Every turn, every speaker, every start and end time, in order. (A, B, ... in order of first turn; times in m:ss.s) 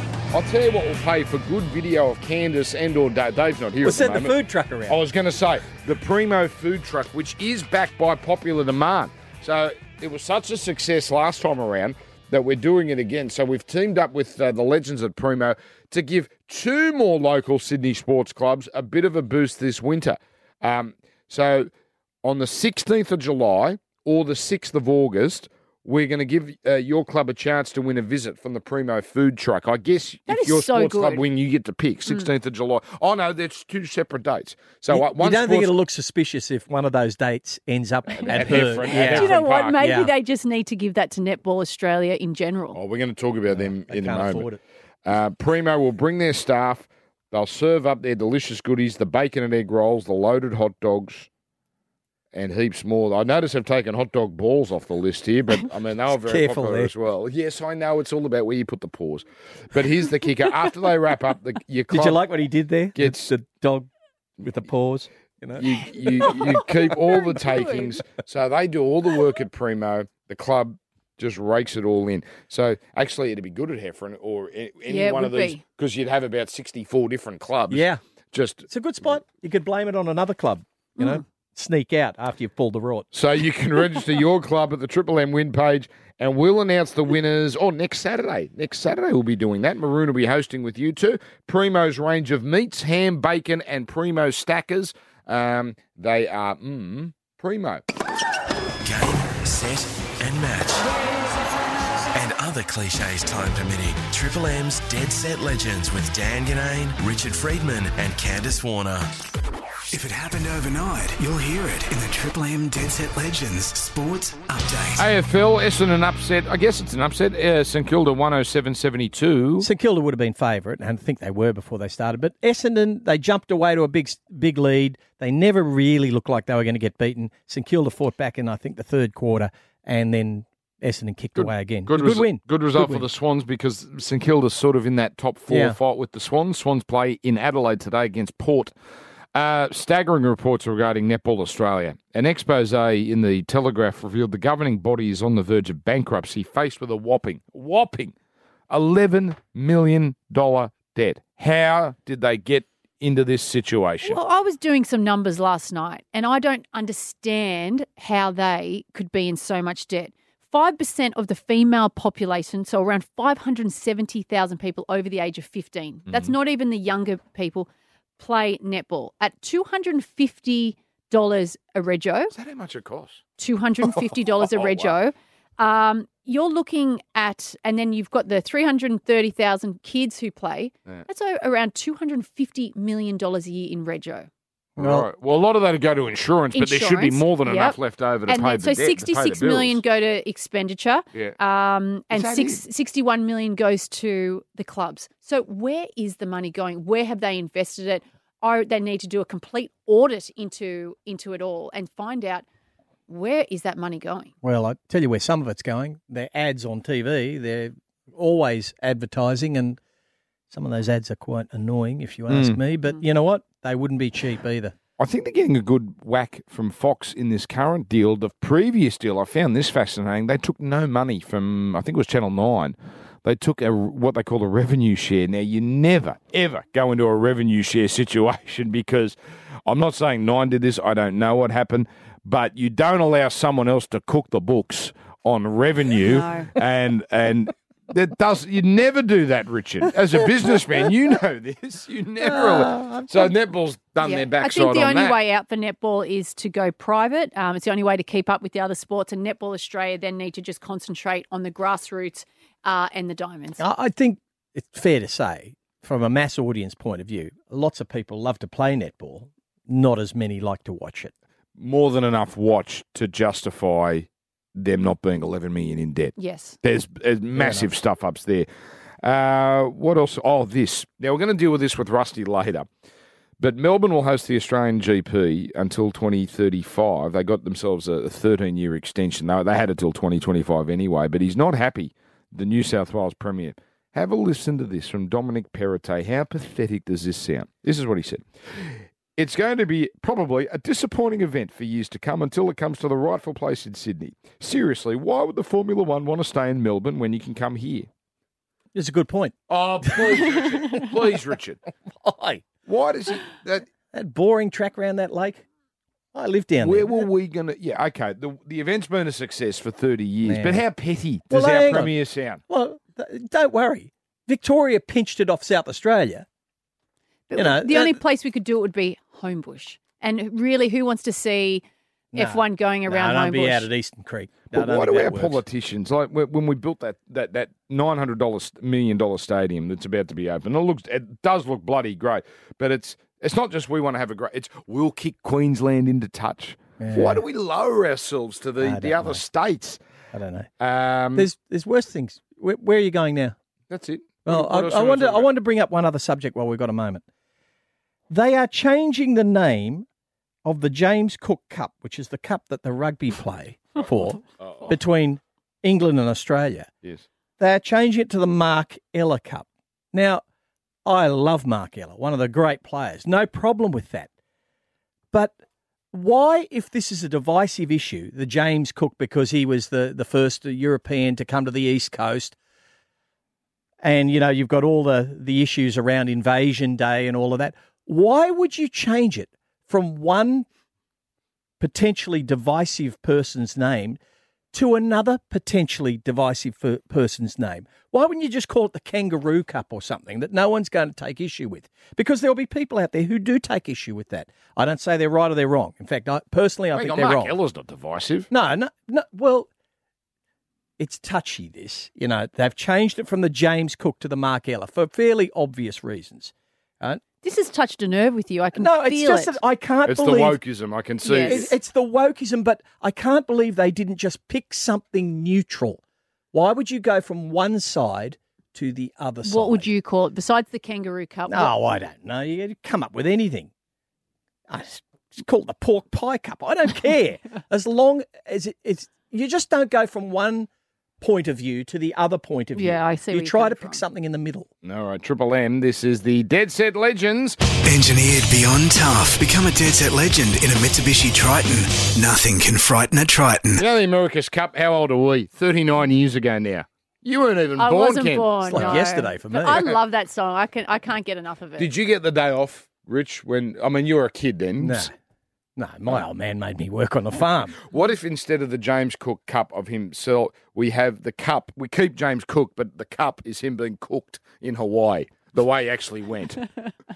0:00.3-0:04.3 A
0:03.8-0:05.0 B
0:04.9-0:21.7 A
0:22.2-0:35.8 A
0:30.3-0:31.2 C
0:34.9-0:40.1 B
0:38.2-0:39.8 A
0:38.2-0:42.8 C
0:42.7-0:44.5 A
0:43.5-0:44.6 B
0:45.0-0:51.3 A
0:52.3-1:02.2 A
0:56.1-0:56.9 B
1:01.9-1:06.6 B
1:03.0-1:03.3 A
1:05.6-1:18.7 A
1:07.0-1:08.0 C
1:14.9-1:15.6 C
1:17.7-1:18.0 B
1:18.7-1:23.1 B
1:23.1-1:37.8 A
1:38.8-1:40.9 D
1:42.1-1:49.1 D
1:49.9-1:55.1 E
1:55.0-1:59.7 A
1:59.6-2:13.0 B
2:11.4-2:18.8 A
2:15.5-2:15.8 B
2:19.3-2:28.1 A
2:28.7-2:34.2 A
2:34.0-2:47.7 C
2:48.2-2:52.3 C
2:52.3-2:53.2 A
2:53.4-3:04.3 C
2:54.4-2:54.9 A
3:04.8-3:05.1 B
3:04.8-3:09.8 A
3:06.5-3:22.4 C
3:12.1-3:12.6 A
3:23.1-3:24.3 C
3:24.4-3:29.8 B
3:30.5-3:34.7 B
3:32.3-3:32.6 A
3:35.0-4:05.2 A
3:56.1-3:56.5 C
4:02.2-4:03.3 B
4:04.0-4:13.6 C
4:13.6-4:21.1 B
4:21.6-4:28.5 A
4:26.2-4:26.6 C
4:27.4-4:27.7 B
4:29.0-4:32.7 A
4:33.4-4:57.9 A
4:58.7-5:00.9 B
4:59.5-5:01.6 A
5:02.0-5:02.4 B
5:02.6-5:03.7 A
5:03.9-5:05.4 B
5:06.1-5:07.1 B
5:06.6-5:12.4 A
5:10.2-5:10.6 B
5:11.3-5:11.9 B
5:12.5-5:16.3 B
5:17.3-5:21.6 C
5:17.4-5:18.0 B
5:22.1-5:25.4 B
5:22.2-5:23.7 C
5:24.5-5:39.8 A
5:36.8-5:37.2 B
5:38.6-5:39.2 B
5:40.1-5:40.5 B
5:40.6-5:41.3 A
5:41.1-5:43.4 B
5:43.7-5:45.3 A
5:44.2-5:47.0 B
5:48.1-5:49.9 B
5:50.4-5:56.7 B
5:54.4-5:54.7 A
5:57.4-6:00.2 B
6:00.8-6:04.1 B
6:05.9-6:12.4 B
6:13.8-6:20.5 B
6:21.6-6:24.0 B
6:24.5-6:37.3 B
6:36.7-6:38.3 A
6:38.3-6:39.5 B
6:40.8-6:47.0 B
6:47.2-6:49.4 C
6:48.6-6:50.4 B
6:49.9-6:51.5 A
6:51.0-6:51.5 C
6:51.2-6:55.8 B
6:56.3-6:59.7 B
6:59.2-7:01.6 C
7:01.3-7:03.5 B
7:04.5-7:10.5 B
7:11.0-7:14.5 B
7:12.5-7:13.8 C
7:14.6-7:17.4 A
7:17.6-7:23.6 E
7:23.6-7:28.8 A
7:27.6-7:31.7 C
7:28.4-7:29.7 B
7:29.5-7:29.7 A
7:31.6-7:34.9 A
7:34.6-7:34.9 B
7:35.6-7:37.6 B
7:37.7-7:46.4 A